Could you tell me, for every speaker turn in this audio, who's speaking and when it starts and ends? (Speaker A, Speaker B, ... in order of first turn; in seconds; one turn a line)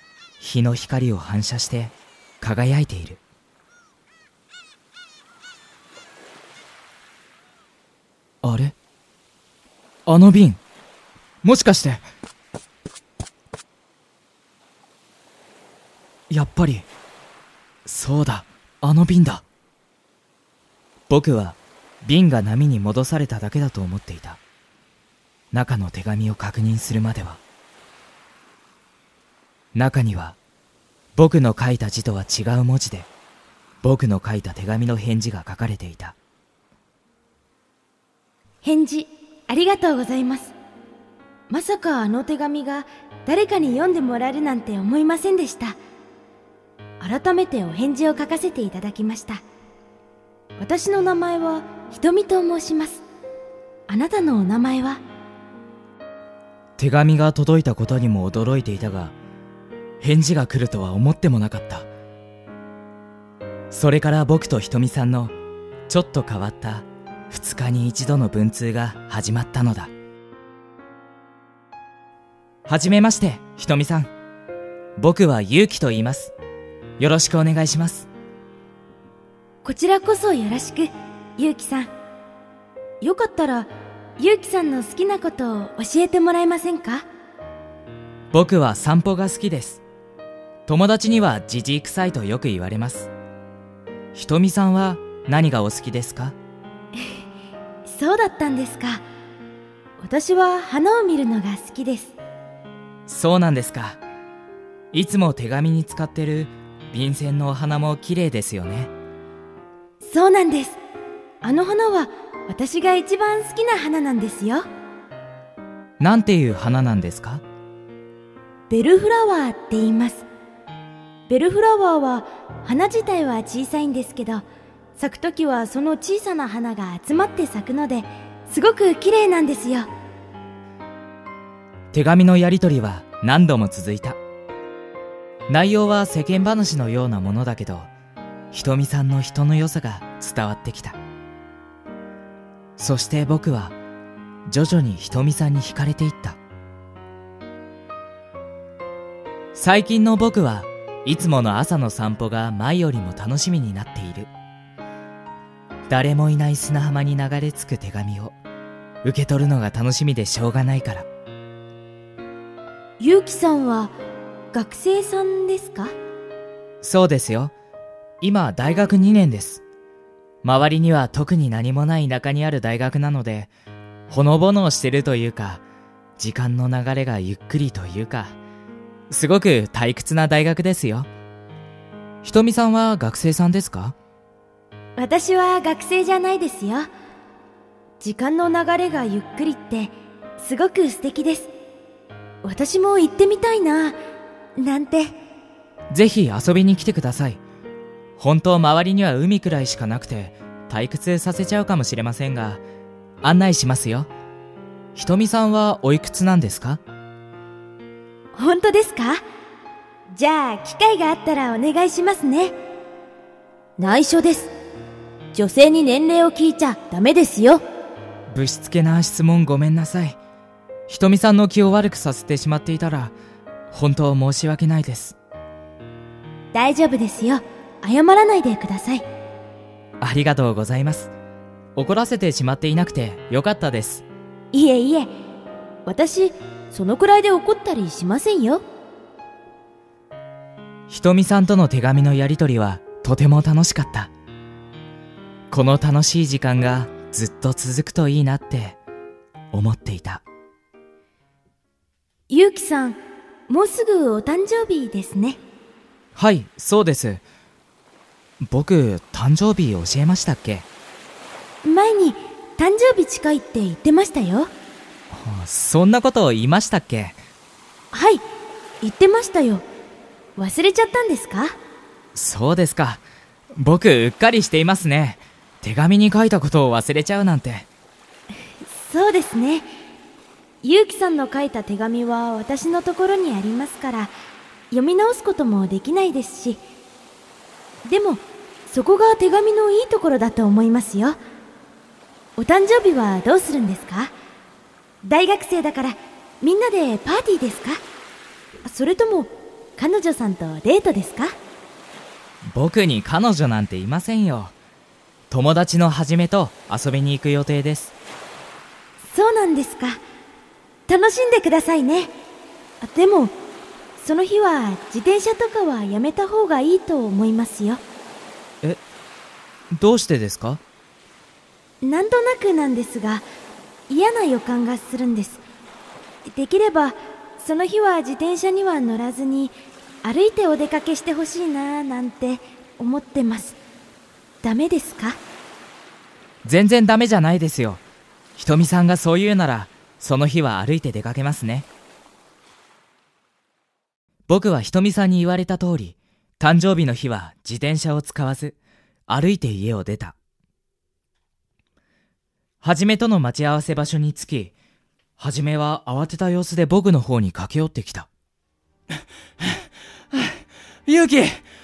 Speaker A: 0.4-3.2
Speaker A: 8.4-8.7
Speaker A: 10.1-10.6
Speaker A: 11.4-12.0
Speaker A: 16.3-16.9
Speaker A: 17.8-19.4
Speaker A: 21.1-24.4
Speaker A: 25.5-27.4
Speaker A: 29.7-30.4
Speaker A: 31.1-33.1
Speaker A: 33.8-36.1
Speaker B: 38.6-40.5
Speaker B: 41.5-45.8
Speaker B: 47.0-49.4
Speaker B: 50.6-53.0
Speaker B: 53.9-55.0
Speaker A: 56.8-59.1
Speaker A: 60.0-61.9
Speaker A: 63.7-65.3
Speaker A: 65.9-69.9
Speaker A: 72.7-74.1
Speaker A: 75.0-76.3
Speaker A: 77.0-78.1
Speaker B: 79.6-81.9
Speaker B: 83.0-87.0
Speaker A: 88.3-89.8
Speaker A: 90.7-93.1
Speaker A: 94.1-96.3
Speaker B: 97.8-99.0
Speaker B: 100.0-102.2
Speaker A: 103.1-104.0
Speaker A: 104.9-108.9
Speaker B: 110.0-110.8
Speaker B: 111.4-114.6
Speaker A: 116.0-117.4
Speaker B: 118.7-120.2
Speaker B: 121.3-124.4
Speaker B: 125.0-129.9
Speaker A: 131.9-134.2
Speaker A: 135.5-137.9
Speaker A: 138.5-141.0
Speaker A: 142.8-143.7
Speaker A: 144.4-146.4
Speaker A: 149.5-154.3
Speaker A: 155.9-158.3
Speaker A: 159.0-161.1
Speaker B: 163.0-163.9
Speaker B: 164.5-165.9
Speaker A: 166.8-167.5
Speaker A: 168.2-169.6
Speaker A: 170.4-173.5
Speaker A: 174.1-175.6
Speaker A: 176.2-178.3
Speaker A: 179.1-181.1
Speaker A: 182.2-183.9
Speaker B: 185.0-186.9
Speaker B: 188.0-191.5
Speaker B: 192.4-194.0
Speaker B: 194.6-195.1
Speaker A: 195.9-197.4
Speaker A: 198.2-202.6
Speaker A: 203.2-204.1
Speaker A: 204.9-206.8
Speaker B: 208.3-209.2
Speaker B: 210.1-212.5
Speaker B: 213.8-214.5
Speaker B: 215.3-217.6
Speaker A: 218.3-220.2
Speaker A: 220.9-223.1
Speaker A: 223.7-225.2
Speaker B: 226.5-229.0
Speaker A: 230.0-231.1
Speaker A: 231.8-234.0
Speaker B: 234.5-235.1
Speaker B: 235.8-238.6
Speaker A: 240.9-244.1
Speaker A: 245.5-248.8
Speaker A: 249.5-250.2
Speaker B: 252.3-253.0
Speaker B: 253.5-255.4
Speaker A: 256.1-257.2
Speaker A: 258.4-260.6
Speaker B: 261.6-264.5
Speaker A: 265.1-267.2
Speaker B: 267.9-268.2
Speaker B: 268.8-269.6
Speaker B: 270.4-271.5
Speaker A: 272.1-273.0
Speaker A: 273.5-277.7
Speaker B: 278.6-279.7
Speaker B: 280.6-284.1
Speaker B: 284.7-286.6
Speaker B: 287.9-291.2
Speaker B: 292.4-294.1
Speaker B: 295.0-297.8
Speaker B: 298.6-301.3
Speaker A: 302.4-304.5
Speaker A: 305.3-307.9
Speaker B: 309.1-310.0
Speaker B: 310.9-312.1
Speaker B: 312.8-313.3
Speaker B: 314.0-317.8
Speaker A: 319.7-320.6
Speaker B: 321.8-323.2
Speaker B: 323.9-325.4
Speaker B: 326.2-333.6
Speaker B: 334.4-335.2
Speaker A: 336.4-337.8
Speaker A: 338.4-341.7
Speaker A: 344.3-348.6
Speaker A: 349.1-350.1
Speaker A: 352.6-354.5
Speaker A: 355.2-358.1
Speaker C: 359.4-361.4